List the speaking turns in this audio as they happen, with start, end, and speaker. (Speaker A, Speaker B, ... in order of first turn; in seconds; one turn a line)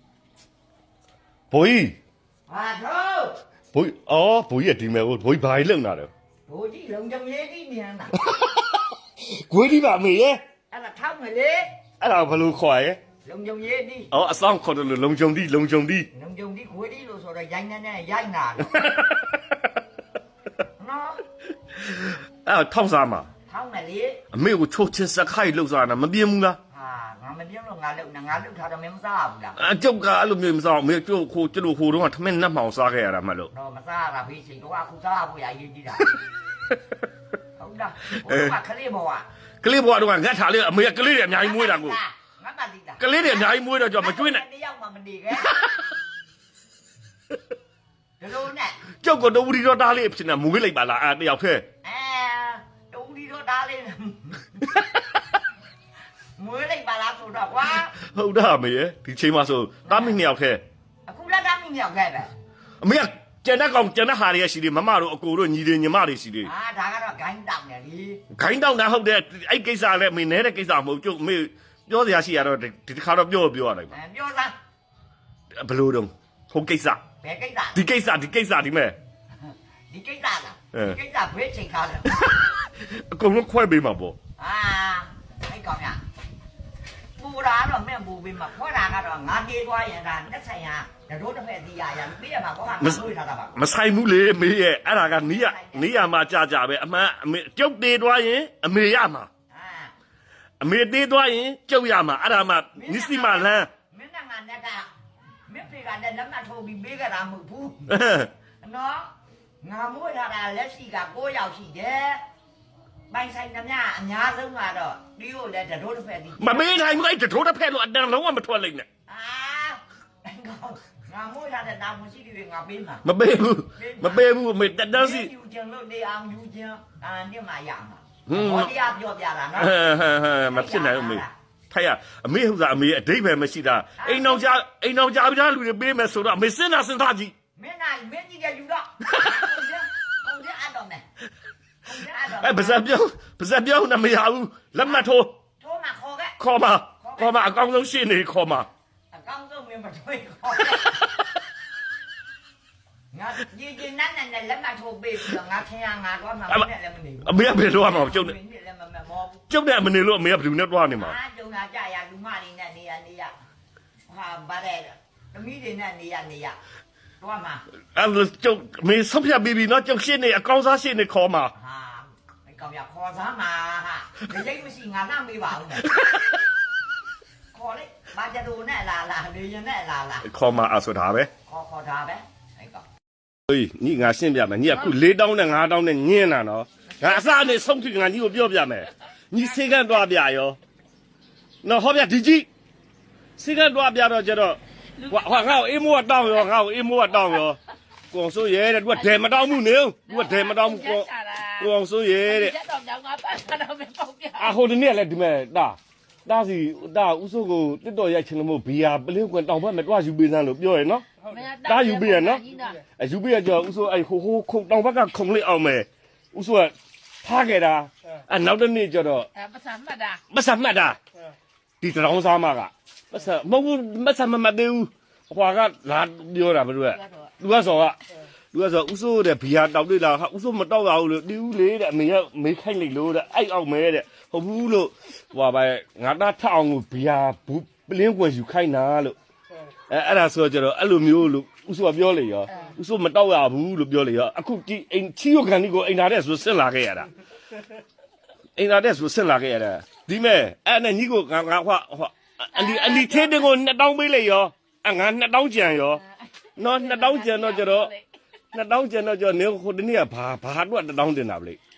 Speaker A: 1.5-2.0
Speaker B: 2.5-3.4
Speaker A: 3.7-6.1
Speaker B: 6.5-8.1
Speaker A: 8.2-10.4
Speaker B: 10.7-11.7
Speaker A: 12.0-13.0
Speaker B: 13.2-14.1
Speaker A: 14.1-16.1
Speaker B: 16.1-18.8
Speaker A: 18.7-19.8
Speaker B: 20.8-21.2
Speaker A: 21.8-23.3
Speaker B: 23.5-24.2
Speaker A: 24.3-26.6
Speaker B: 26.7-29.6
Speaker A: 29.6-33.5
Speaker B: 33.5-36.1
Speaker B: 37.6-39.2
Speaker A: 38.1-38.5
Speaker A: 39.6-42.0
Speaker B: 41.3-45.5
Speaker A: 43.0-44.4
Speaker B: 48.2-48.8
Speaker A: 49.0-51.6
Speaker B: 51.8-54.6
Speaker A: 54.7-55.0
Speaker B: 56.4-57.9
Speaker A: 57.9-60.6
Speaker B: 59.9-60.2
Speaker B: 61.1-62.3
Speaker A: 62.8-66.5
Speaker B: 66.4-68.2
Speaker A: 68.3-74.0
Speaker B: 73.9-74.5
Speaker A: 75.5-77.0
Speaker B: 77.2-77.8
Speaker A: 77.7-79.0
Speaker B: 79.9-82.2
Speaker A: 82.7-84.2
Speaker B: 84.4-86.0
Speaker B: 87.2-93.6
Speaker A: 93.5-99.3
Speaker B: 95.1-95.9
Speaker B: 99.5-99.9
Speaker A: 100.6-103.7
Speaker B: 102.7-104.9
Speaker B: 105.5-107.9
Speaker A: 107.9-108.3
Speaker B: 108.6-112.2
Speaker B: 113.1-116.7
Speaker A: 116.4-118.9
Speaker B: 119.1-123.0
Speaker A: 123.0-125.3
Speaker B: 123.8-124.2
Speaker B: 124.9-129.7
Speaker A: 128.3-128.7
Speaker A: 129.6-137.3
Speaker B: 130.5-131.3
Speaker B: 134.0-134.5
Speaker B: 137.6-141.0
Speaker B: 141.8-142.8
Speaker A: 142.4-145.3
Speaker B: 144.8-145.1
Speaker B: 145.6-146.3
Speaker A: 146.4-148.7
Speaker B: 147.0-147.4
Speaker B: 149.1-151.0
Speaker B: 153.1-159.4
Speaker A: 157.2-158.3
Speaker A: 159.5-161.2
Speaker B: 161.0-163.3
Speaker B: 164.1-166.6
Speaker B: 167.2-167.6
Speaker A: 167.9-171.5
Speaker B: 171.5-175.9
Speaker B: 177.5-180.3
Speaker A: 180.2-181.3
Speaker B: 181.4-182.8
Speaker A: 183.5-190.6
Speaker A: 191.6-192.5
Speaker A: 193.4-197.6
Speaker C: 195.0-195.6
Speaker A: 198.1-201.1
Speaker C: 198.9-204.5
Speaker A: 201.6-202.5
Speaker A: 204.4-211.1
Speaker C: 211.2-212.8
Speaker A: 211.6-219.3
Speaker C: 219.3-220.2
Speaker A: 220.3-221.0
Speaker A: 221.8-228.0
Speaker C: 226.9-227.3
Speaker A: 228.5-239.2
Speaker A: 239.9-247.1
Speaker A: 248.6-256.0
Speaker C: 252.5-253.5
Speaker A: 256.6-257.9
Speaker C: 256.6-258.1
Speaker A: 258.5-261.6